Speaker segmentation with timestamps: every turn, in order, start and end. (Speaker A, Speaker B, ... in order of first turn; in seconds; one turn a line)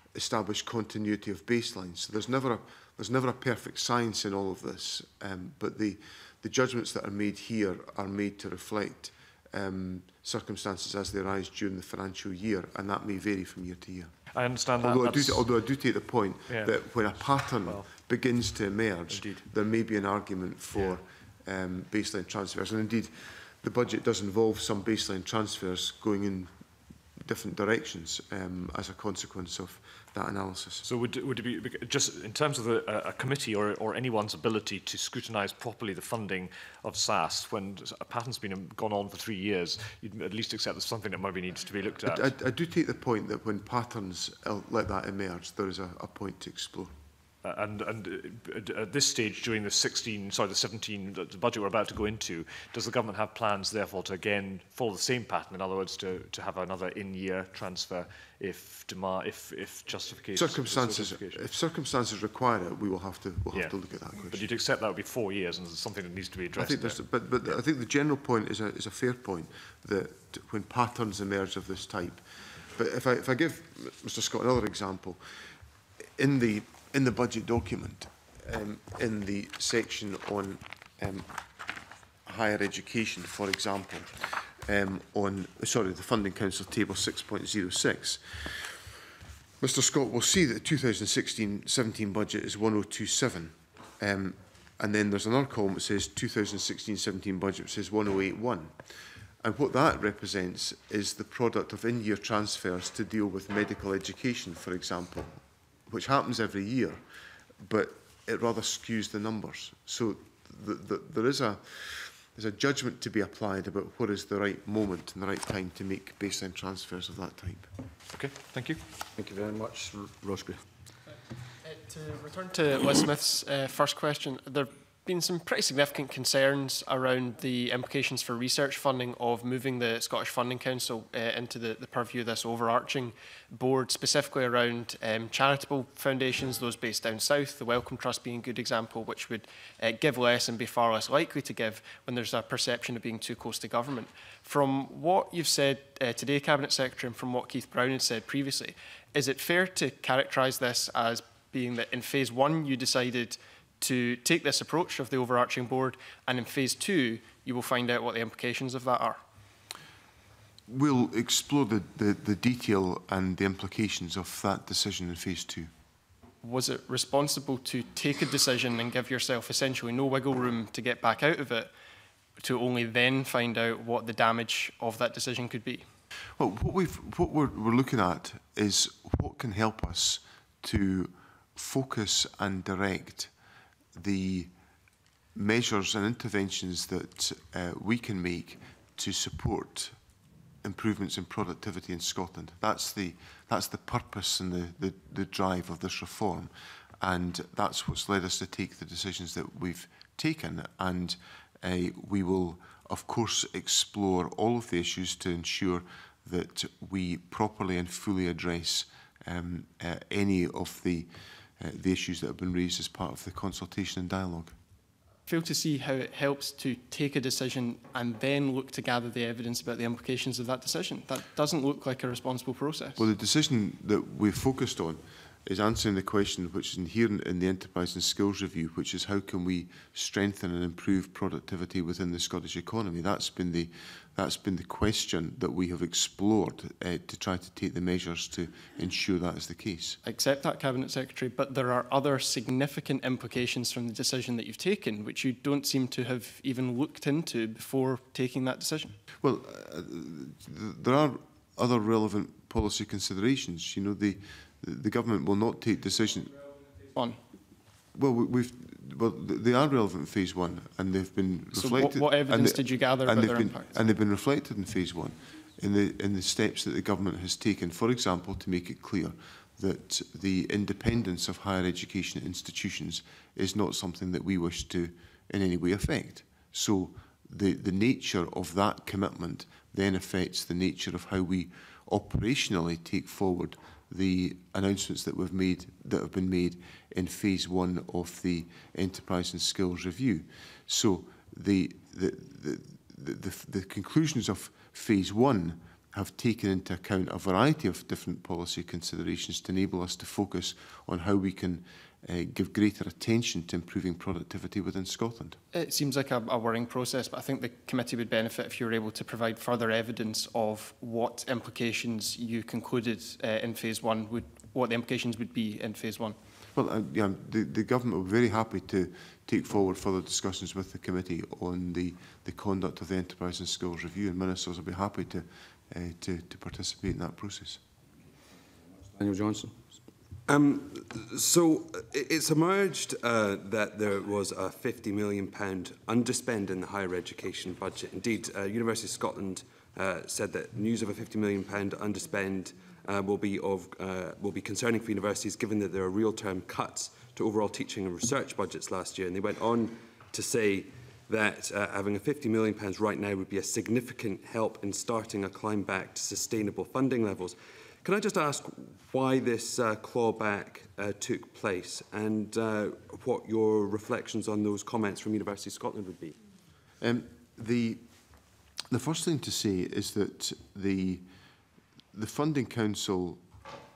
Speaker A: 0.1-14.1
Speaker B: 14.3-15.5
Speaker A: 14.8-26.5
Speaker B: 16.5-16.8
Speaker B: 19.1-19.5
Speaker A: 27.2-30.9
Speaker B: 30.9-42.3
Speaker A: 42.1-46.9
Speaker B: 47.4-61.4
Speaker A: 60.4-64.5
Speaker B: 64.3-67.0
Speaker A: 66.6-72.2
Speaker A: 72.8-75.2
Speaker A: 76.2-81.3
Speaker A: 82.3-88.7
Speaker A: 89.6-98.7
Speaker A: 99.4-107.0
Speaker A: 107.6-117.7
Speaker B: 118.1-118.8
Speaker C: 119.2-120.6
Speaker D: 121.6-159.2
Speaker A: 160.7-165.7
Speaker D: 166.4-171.7
Speaker D: 172.4-175.9
Speaker A: 176.4-183.3
Speaker A: 183.9-184.5
Speaker A: 185.3-190.0
Speaker A: 190.6-214.6
Speaker D: 215.3-223.0
Speaker A: 223.0-240.0
Speaker D: 240.0-249.0
Speaker A: 249.2-256.4
Speaker D: 256.9-257.2
Speaker A: 257.9-305.4
Speaker D: 261.5-263.8
Speaker D: 305.5-316.2
Speaker A: 316.6-327.6
Speaker C: 328.9-329.5
Speaker E: 330.3-366.2
Speaker A: 366.8-367.8
Speaker A: 368.7-371.0
Speaker A: 371.9-373.2